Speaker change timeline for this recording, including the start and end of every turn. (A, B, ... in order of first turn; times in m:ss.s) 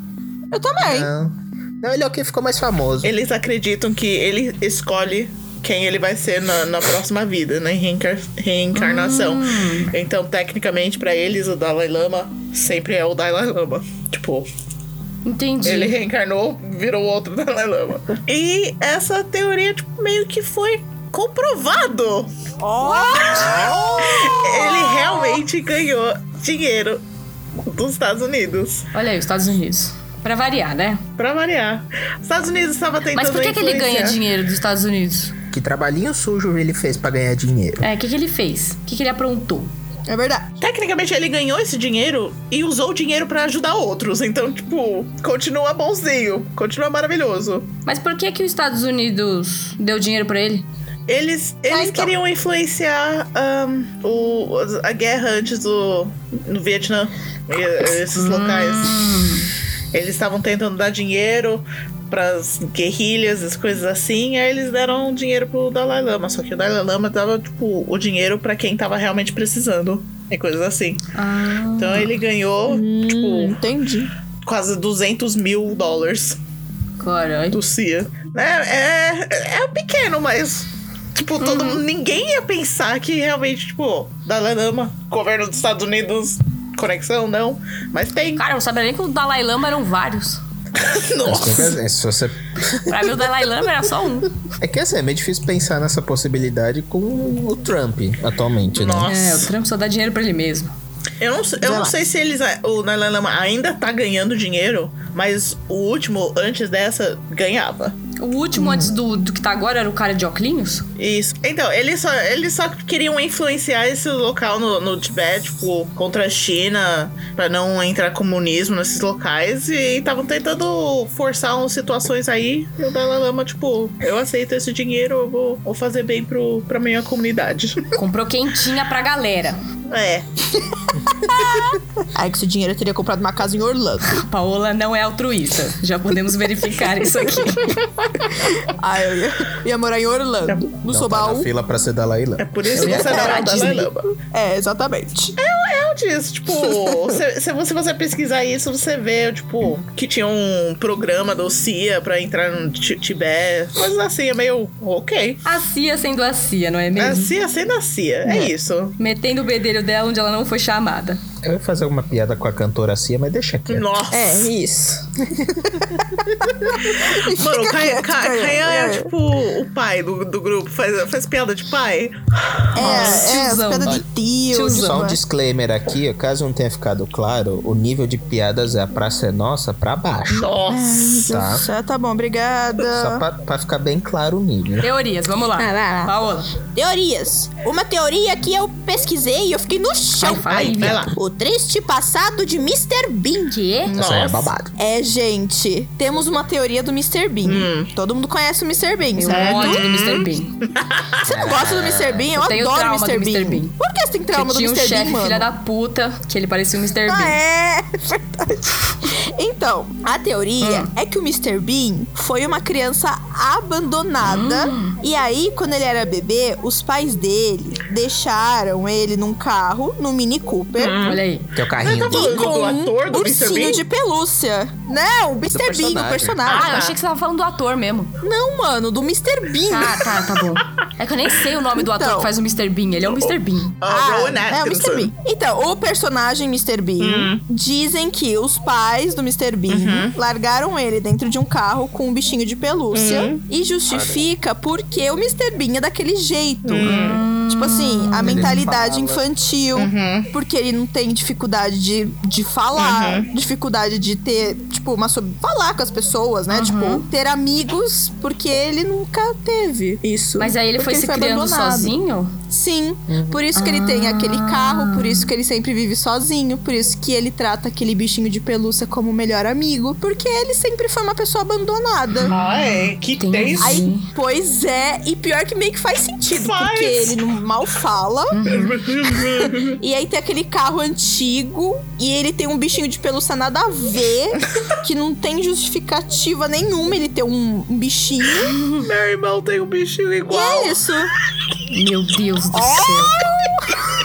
0:00.5-0:01.1 A
0:00.8-0:03.1 B
0:03.0-0:14.5 C
0:08.7-0:09.9 D
0:15.2-0:16.0 D
0:15.6-0:22.3 C
0:22.6-0:25.4 A
0:22.8-0:27.0 C
0:27.6-0:28.9 C
0:28.9-0:31.0 D
0:31.2-0:34.2 C
0:33.1-0:35.3 D
0:35.5-0:37.8 B
0:37.8-0:39.7 D
0:40.1-0:40.5 A
0:40.6-0:47.7 C
0:47.8-0:50.6 D
0:51.1-0:59.0 C
0:51.7-0:52.1 A
0:58.1-0:59.5 D
0:59.9-1:11.1 C
1:11.1-1:12.1 D
1:11.8-1:13.6 C
1:12.6-1:14.1 A
1:14.4-1:16.4 C
1:17.0-1:17.6 D
1:17.5-1:28.4 C
1:21.4-1:21.8 D
1:28.4-1:30.4 D
1:30.7-1:31.8 C
1:31.2-1:33.2 B
1:32.9-1:34.4 D
1:34.6-1:39.1 B
1:38.7-1:39.5 C
1:39.0-1:40.7 D
1:41.2-1:48.0 C
1:41.6-1:42.0 A
1:48.2-1:50.8 D
1:48.5-1:48.9 A
1:51.0-2:07.9 C
2:07.9-2:09.6 D
2:09.9-2:10.4 C
2:11.2-2:14.2 A
2:14.1-2:17.7 D
2:18.5-2:21.5 A
2:20.5-2:20.7 C
2:20.8-2:23.3 B
2:22.4-2:24.1 C
2:22.7-2:23.9 D
2:22.8-2:25.3 A
2:25.4-2:35.4 C
2:26.8-2:27.1 A
2:35.4-2:37.3 D
2:37.0-2:39.0 C
2:38.2-2:38.5 A
2:39.0-2:41.2 D
2:41.4-2:43.9 B
2:43.7-2:44.5 C
2:44.1-2:49.1 A
2:47.2-2:53.3 C
2:52.7-2:55.2 A
2:52.8-2:55.1 D
2:54.7-3:00.5 B
3:00.3-3:01.4 C
3:00.7-3:03.2 A
3:01.2-3:01.6 B
3:02.8-3:04.9 B
3:04.8-3:06.5 D
3:05.6-3:06.1 A
3:06.7-3:13.6 A
3:10.2-3:11.1 D
3:10.3-3:11.1 C
3:13.5-3:13.9 D
3:13.9-3:14.7 B
3:13.9-3:14.5 C
3:14.8-3:19.8 A
3:17.4-3:17.9 C
3:19.2-3:20.5 D
3:19.2-3:21.2 C
3:21.2-3:22.3 B
3:21.2-3:25.5 A
3:22.3-3:23.7 D
3:24.3-3:27.4 D
3:27.1-3:41.1 A
3:30.6-3:30.9 D
3:34.2-3:34.9 D
3:40.8-3:41.2 C
3:41.0-3:41.5 D
3:41.5-3:42.5 B
3:41.8-3:43.8 C
3:42.1-3:46.9 A
3:45.5-3:46.4 B
3:46.4-3:46.9 C
3:46.5-3:48.1 D
3:48.2-3:50.1 A
3:49.7-3:53.7 D
3:51.7-3:52.3 A
3:53.0-3:55.1 C
3:53.8-4:21.9 A
3:57.0-3:57.4 C
3:59.7-4:00.1 C
4:02.9-4:03.4 C
4:03.9-4:04.2 B
4:06.6-4:07.2 C
4:06.8-4:08.6 D
4:08.2-4:09.2 B
4:09.8-4:10.3 C
4:12.8-4:13.3 C
4:16.5-4:17.0 D
4:20.4-4:22.4 D
4:22.5-4:32.3 A
4:23.1-4:23.4 B
4:23.5-4:25.2 D
4:32.2-4:33.8 C
4:32.3-4:34.1 D
4:33.6-4:38.4 A
4:36.3-4:37.2 C
4:38.3-4:38.8 D
4:38.5-4:39.8 C
4:39.4-4:48.5 A
4:48.5-4:48.8 D
4:48.8-4:50.8 C
4:50.3-4:51.1 A
4:51.7-4:53.2 D
4:52.5-4:53.8 A